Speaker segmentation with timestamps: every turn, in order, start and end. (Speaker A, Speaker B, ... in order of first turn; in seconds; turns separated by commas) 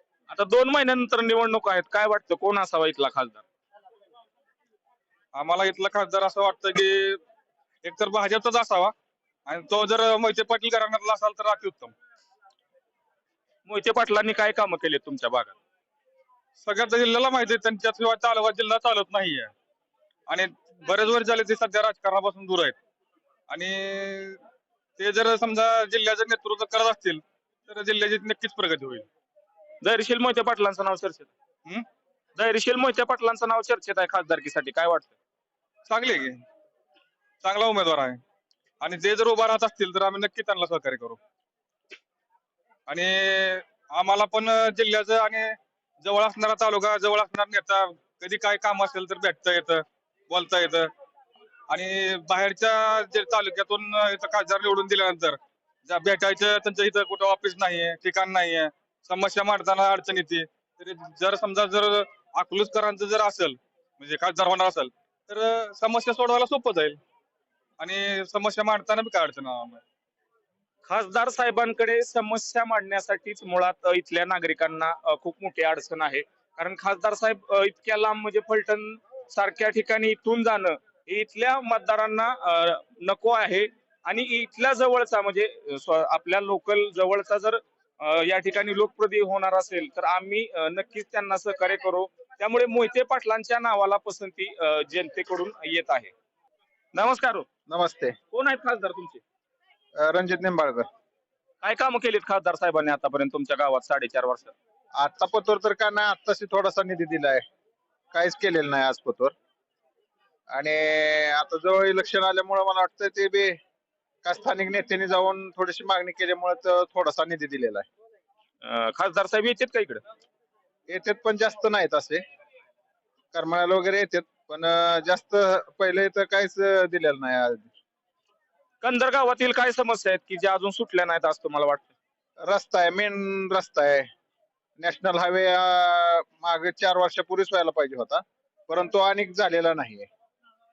Speaker A: 0.3-3.4, Speaker B: 5.3-7.2, Speaker B: 7.8-8.9, Speaker B: 9.5-11.9, Speaker A: 13.7-15.6, Speaker B: 16.6-19.5, Speaker B: 20.3-22.8, Speaker B: 23.5-24.4, Speaker B: 25.0-29.1, Speaker A: 29.8-31.3, Speaker A: 32.4-35.1, Speaker B: 35.9-36.4, Speaker B: 37.4-38.2, Speaker B: 38.8-41.2, Speaker B: 42.9-50.9, Speaker B: 51.7-67.0, Speaker B: 67.8-69.8, Speaker A: 70.8-96.1, Speaker A: 96.9-97.5, Speaker C: 97.7-98.2, Speaker A: 98.3-99.2, Speaker C: 100.0-100.9, Speaker A: 101.6-104.5, Speaker C: 105.0-107.4, Speaker C: 108.1-109.3, Speaker C: 110.5-113.6, Speaker C: 114.2-117.9, Speaker A: 118.6-120.0, Speaker C: 120.9-122.2, Speaker C: 123.3-127.7, Speaker A: 128.8-131.9, Speaker C: 132.4-134.1, Speaker C: 134.8-140.1